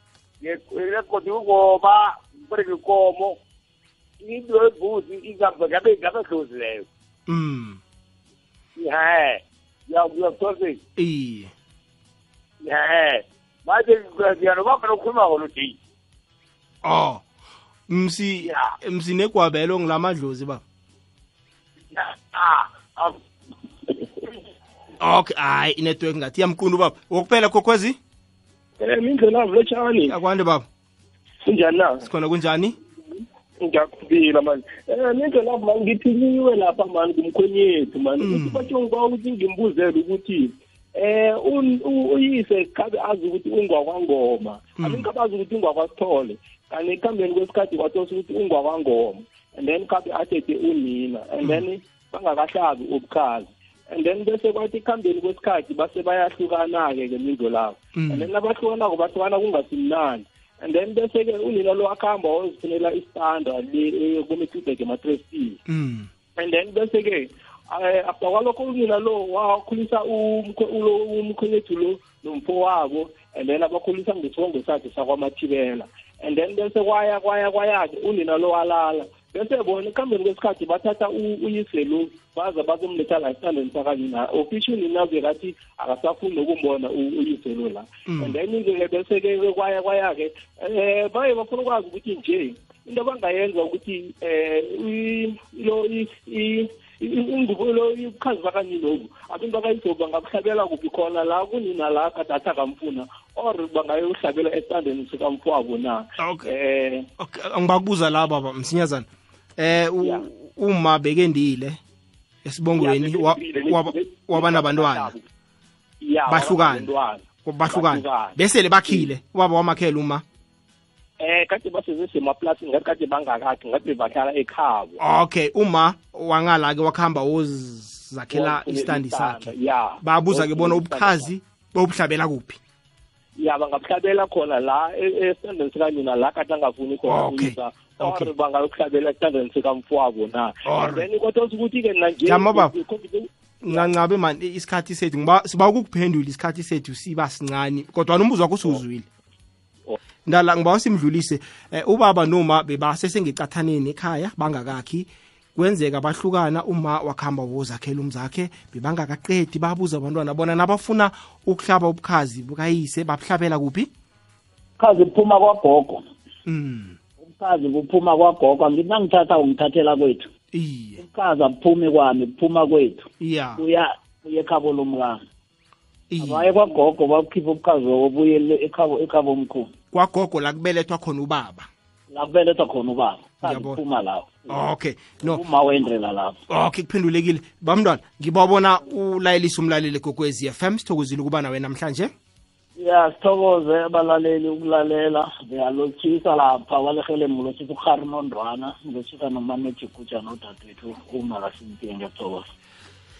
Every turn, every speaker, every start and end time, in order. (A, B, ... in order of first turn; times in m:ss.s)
0:00.4-0:03.4 A
0:04.2-0:06.8 A
0:07.3-0:07.8 B
0:08.8-0:10.8 A
0:11.0-0:11.5 B
0:12.6-0:15.7 A
0:16.8-0:17.2 B
0:17.9-0:20.6 B
0:22.0-0:23.1 A
0:25.0-0:28.0 B
0:28.8-0:30.1 C
0:30.1-0:30.6 B
0:31.4-0:32.0 C
0:32.0-0:32.8 B
0:33.6-1:05.6 C
0:38.2-0:38.7 B
0:44.8-0:45.1 B
0:57.9-0:58.3 B
1:05.7-1:06.1 B
1:06.4-1:47.1 C
1:28.1-1:28.4 B
1:46.2-1:46.5 B
1:47.2-1:49.0 B
1:49.6-1:51.8 B
1:52.4-1:55.1 B
1:52.7-1:55.2 C
1:56.0-1:59.1 C
1:56.3-1:56.9 B
1:57.4-2:00.2 B
2:01.2-2:05.0 C
2:05.0-2:12.6 B
2:08.3-2:11.3 C
2:13.4-2:23.9 C
2:17.1-2:18.3 B
2:20.6-2:21.0 B
2:22.2-2:22.7 B
2:23.6-2:29.0 B
2:30.3-2:43.9 B
2:44.8-2:46.0 D
2:46.5-2:47.0 B
2:47.2-2:50.3 D
2:50.5-2:51.0 B
2:51.0-2:55.2 D
2:53.2-2:53.6 B
2:56.1-2:56.5 B
2:56.2-2:59.7 D
2:59.9-3:01.7 B
3:02.1-3:04.6 D
3:03.4-3:03.8 B
3:04.5-3:05.4 B
3:05.2-3:06.4 D
3:06.5-3:12.1 B
3:12.8-3:22.5 D